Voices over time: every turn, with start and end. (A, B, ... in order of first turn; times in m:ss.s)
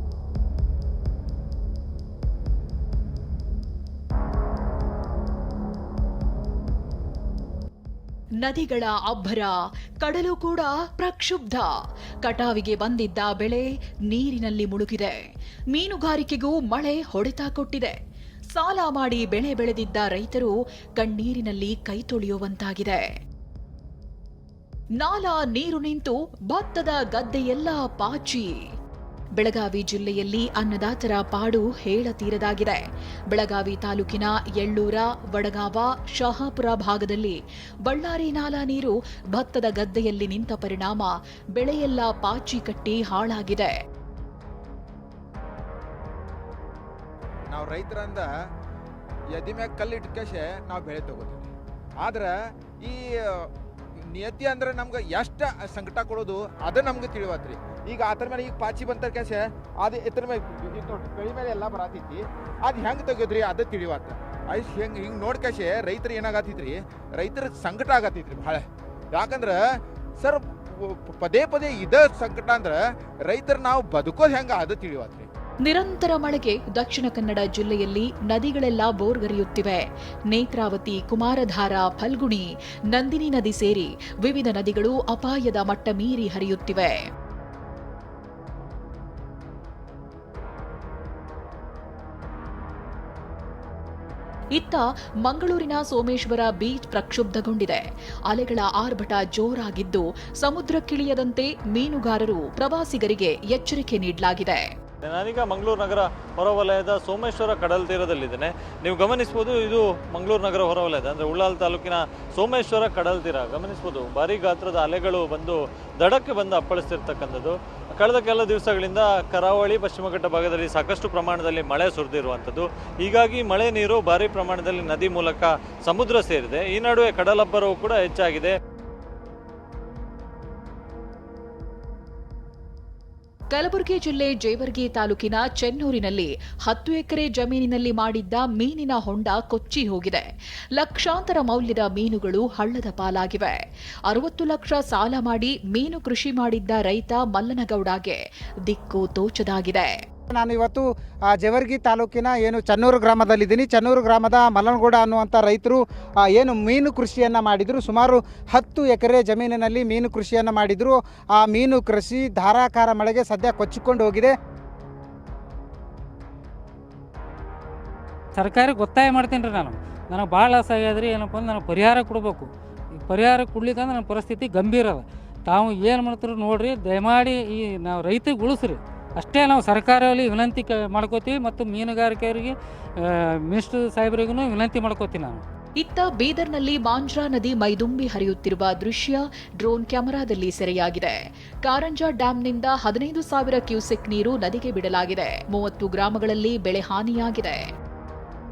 0:08.4-0:11.7 A
0:12.2-0:15.2 A
0:15.7-0:18.0 A
0:18.5-0:23.0 A
0:25.0-0:28.6 A
0:29.4-0:43.7 A
0:47.5-0:48.3 B
0:49.3-0:51.5 B
0:52.0-0:53.5 B
0:54.1-1:09.6 B
1:10.2-1:15.3 B
1:15.6-1:27.0 A
1:34.5-1:44.7 A
1:45.0-2:08.5 C
2:13.5-2:23.6 A
2:24.1-2:29.9 A
2:30.3-2:30.8 D
2:31.4-2:44.3 D
2:48.3-3:05.4 E
3:05.8-3:17.6 A